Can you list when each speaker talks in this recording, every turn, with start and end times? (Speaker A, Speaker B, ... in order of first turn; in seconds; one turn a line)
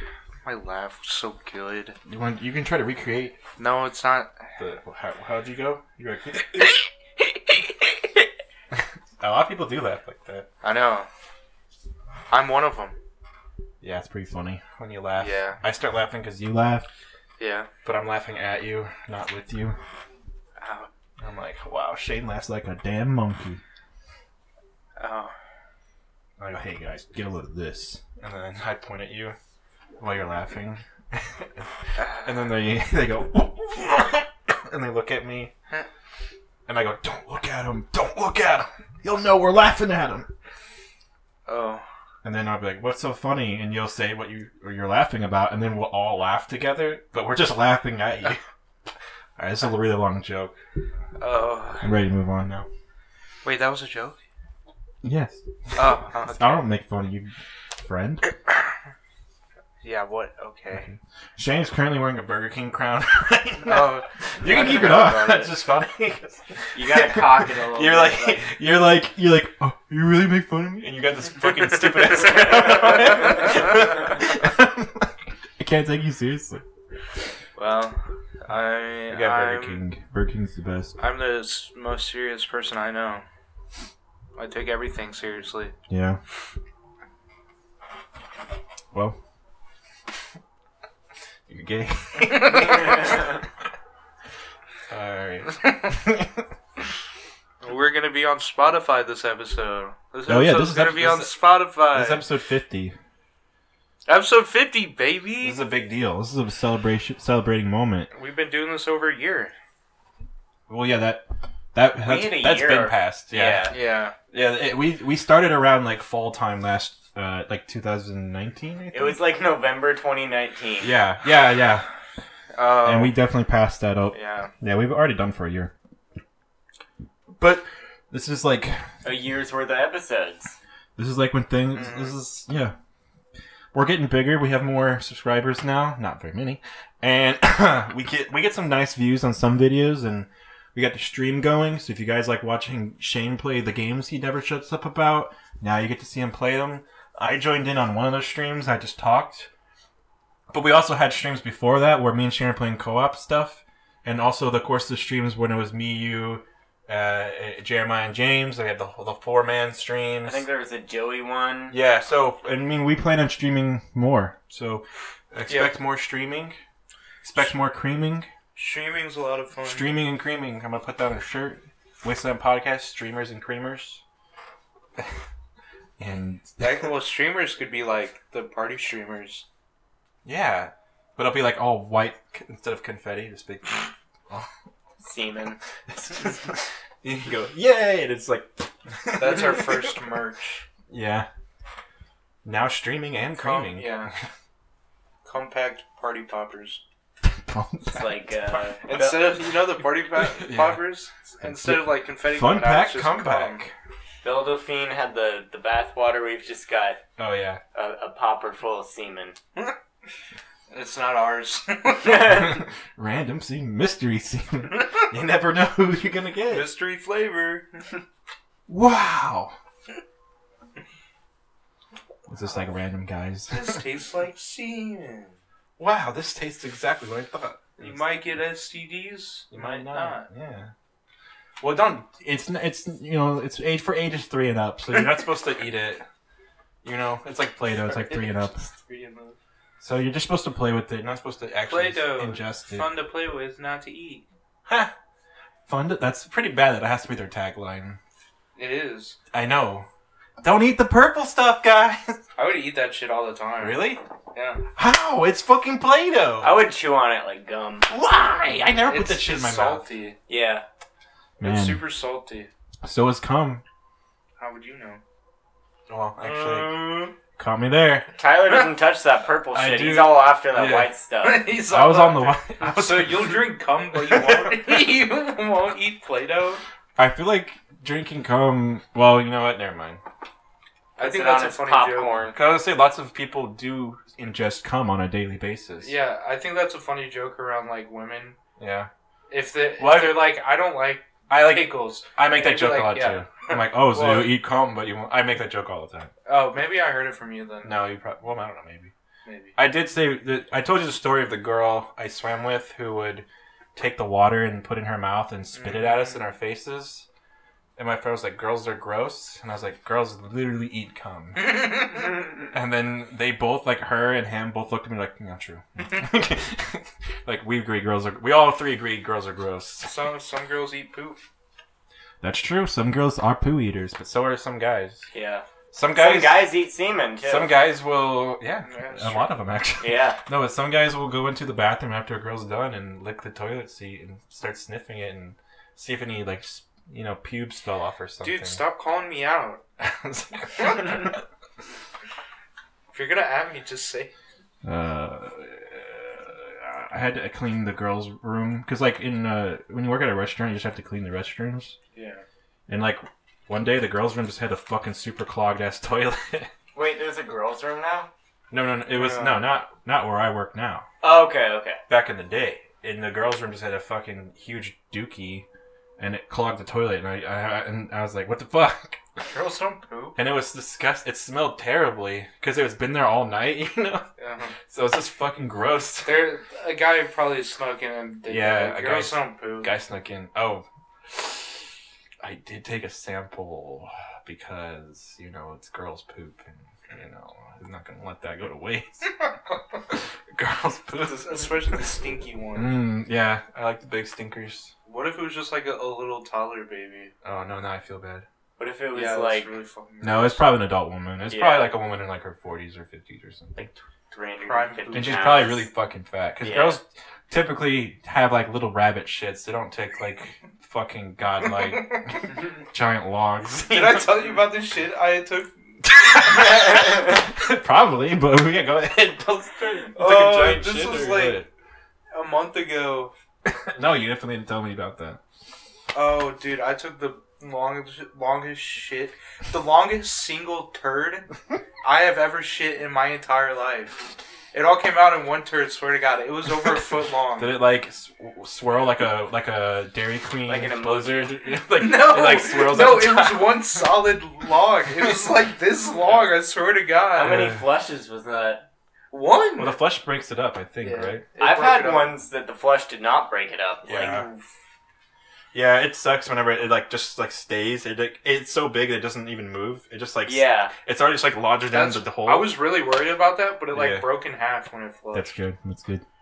Speaker A: 0.5-1.9
Speaker B: 2.1-3.4
Speaker A: 3.6-4.3
Speaker B: 4.6-6.8
Speaker B: 8.7-10.5
Speaker A: 10.6-11.1
Speaker A: 12.3-13.0
Speaker B: 13.8-16.9
Speaker A: 15.2-15.6
Speaker A: 17.4-17.7
Speaker B: 17.8-19.8
Speaker A: 20.6-20.9
Speaker B: 21.2-23.6
Speaker A: 25.0-25.3
Speaker B: 26.4-29.4
Speaker B: 30.0-35.5
Speaker A: 32.0-32.3
Speaker B: 36.7-40.3
Speaker A: 41.5-41.8
Speaker B: 42.2-48.4
Speaker B: 49.4-50.6
Speaker A: 51.2-52.0
Speaker B: 51.8-52.7
Speaker A: 53.4-54.2
Speaker B: 55.0-58.3
Speaker A: 55.8-56.6
Speaker A: 59.8-60.9
Speaker B: 60.7-76.6
Speaker A: 63.6-65.5
Speaker C: 64.4-65.5
Speaker C: 66.8-68.4
Speaker A: 77.5-79.8
Speaker B: 79.1-81.0
Speaker A: 81.0-83.2
Speaker A: 84.4-85.8
Speaker B: 85.9-86.2
Speaker B: 88.9-89.2
Speaker B: 91.5-93.2
Speaker A: 92.4-92.8
Speaker B: 94.9-96.5
Speaker A: 97.6-102.2
Speaker B: 100.3-101.4
Speaker B: 101.9-103.0
Speaker A: 104.1-105.6
Speaker B: 105.4-108.1
Speaker A: 108.1-109.5
Speaker B: 110.7-113.7
Speaker C: 112.0-113.8
Speaker A: 113.7-114.2
Speaker B: 114.3-119.2
Speaker C: 118.9-120.9
Speaker B: 120.8-121.9
Speaker A: 122.5-123.2
Speaker B: 122.8-125.7
Speaker A: 124.1-124.5
Speaker B: 127.4-128.9
Speaker C: 129.0-130.6
Speaker B: 131.0-132.8
Speaker A: 131.7-132.2
Speaker B: 133.7-149.5
Speaker B: 150.5-160.5
Speaker C: 160.2-161.8
Speaker B: 161.7-166.6
Speaker A: 165.5-165.8
Speaker B: 167.2-168.3
Speaker A: 168.6-169.9
Speaker B: 169.6-174.0
Speaker B: 176.0-176.9
Speaker A: 176.6-179.4
Speaker B: 180.2-184.5
Speaker C: 185.0-185.6
Speaker B: 185.9-189.9
Speaker A: 189.2-190.6
Speaker B: 190.9-191.3
Speaker B: 192.4-194.3
Speaker A: 193.3-194.1
Speaker A: 195.2-196.8
Speaker B: 197.2-198.6
Speaker C: 197.9-199.3
Speaker A: 198.9-203.6
Speaker B: 200.2-200.8
Speaker B: 201.4-203.7
Speaker C: 204.2-207.0
Speaker B: 207.2-207.6
Speaker C: 207.7-209.4
Speaker A: 210.7-212.4
Speaker B: 212.1-216.7
Speaker A: 216.5-218.0
Speaker B: 218.7-219.6
Speaker B: 222.3-223.8
Speaker A: 223.5-225.4
Speaker B: 225.8-228.0
Speaker A: 227.8-230.3
Speaker B: 229.5-230.7
Speaker B: 231.6-236.1
Speaker B: 236.8-238.6
Speaker A: 238.8-239.3
Speaker B: 239.8-242.9
Speaker A: 241.7-244.2
Speaker B: 244.7-244.9
Speaker B: 245.7-248.0
Speaker A: 248.6-249.2
Speaker B: 249.3-249.9
Speaker B: 250.4-252.2
Speaker A: 252.4-253.8
Speaker B: 253.6-254.0
Speaker A: 254.3-254.6
Speaker B: 254.8-256.6
Speaker C: 256.4-257.9
Speaker B: 257.9-259.9
Speaker A: 258.9-260.2
Speaker C: 260.3-260.6
Speaker B: 261.4-261.8
Speaker A: 261.4-262.5
Speaker B: 262.8-263.6
Speaker A: 264.4-265.0
Speaker B: 265.9-268.1
Speaker A: 266.2-267.1
Speaker C: 268.2-271.5
Speaker B: 269.5-270.9
Speaker A: 271.2-276.6
Speaker B: 271.7-274.8
Speaker B: 277.0-280.0
Speaker C: 281.0-282.4
Speaker A: 281.0-282.3
Speaker B: 282.3-285.9
Speaker A: 285.8-288.4
Speaker B: 288.6-288.9
Speaker A: 289.3-294.3
Speaker B: 289.8-290.3
Speaker B: 291.3-296.1
Speaker A: 296.3-297.8
Speaker B: 297.6-298.9
Speaker A: 299.2-299.6
Speaker B: 299.6-307.1
Speaker A: 305.6-306.3
Speaker B: 307.8-311.9
Speaker A: 311.4-312.2
Speaker B: 312.5-319.9
Speaker A: 319.8-321.2
Speaker B: 322.2-325.1
Speaker C: 325.1-327.6
Speaker B: 325.7-326.6
Speaker B: 327.2-338.6
Speaker A: 328.7-329.3
Speaker C: 329.8-330.2
Speaker A: 338.2-339.6
Speaker B: 339.8-341.2
Speaker A: 342.9-344.1
Speaker B: 344.6-351.8
Speaker A: 351.9-352.2
Speaker B: 352.7-356.5
Speaker C: 356.8-358.1
Speaker B: 358.5-360.9
Speaker A: 358.9-359.5
Speaker C: 361.0-361.8
Speaker B: 361.9-365.5
Speaker B: 366.0-369.0
Speaker A: 369.3-370.2
Speaker B: 370.1-374.1
Speaker A: 374.2-374.5
Speaker B: 374.6-376.2
Speaker A: 376.1-379.7
Speaker B: 378.3-381.6
Speaker B: 382.2-389.1
Speaker B: 389.9-391.7
Speaker A: 391.1-392.8
Speaker B: 392.6-394.7
Speaker A: 394.9-397.1
Speaker B: 397.2-398.3
Speaker C: 398.6-399.5
Speaker A: 398.9-400.5
Speaker B: 400.0-403.6
Speaker C: 401.3-401.7
Speaker C: 403.6-405.7
Speaker A: 404.4-405.5
Speaker B: 404.9-414.4
Speaker C: 406.4-406.8
Speaker A: 413.7-415.5
Speaker B: 415.9-421.5
Speaker A: 416.2-416.9
Speaker A: 419.9-421.4
Speaker A: 422.1-423.1
Speaker B: 423.5-425.2
Speaker A: 425.9-431.3
Speaker A: 431.8-437.6
Speaker B: 437.4-443.6
Speaker C: 440.5-441.3
Speaker A: 441.8-447.5
Speaker C: 447.1-448.6
Speaker B: 447.2-447.6
Speaker A: 449.1-449.8
Speaker B: 449.6-451.2
Speaker A: 450.8-452.2
Speaker C: 451.4-454.3
Speaker B: 453.9-454.3
Speaker A: 454.0-454.4
Speaker B: 455.5-462.5
Speaker C: 460.3-460.7
Speaker A: 461.7-465.3
Speaker B: 463.7-464.1
Speaker B: 465.1-466.0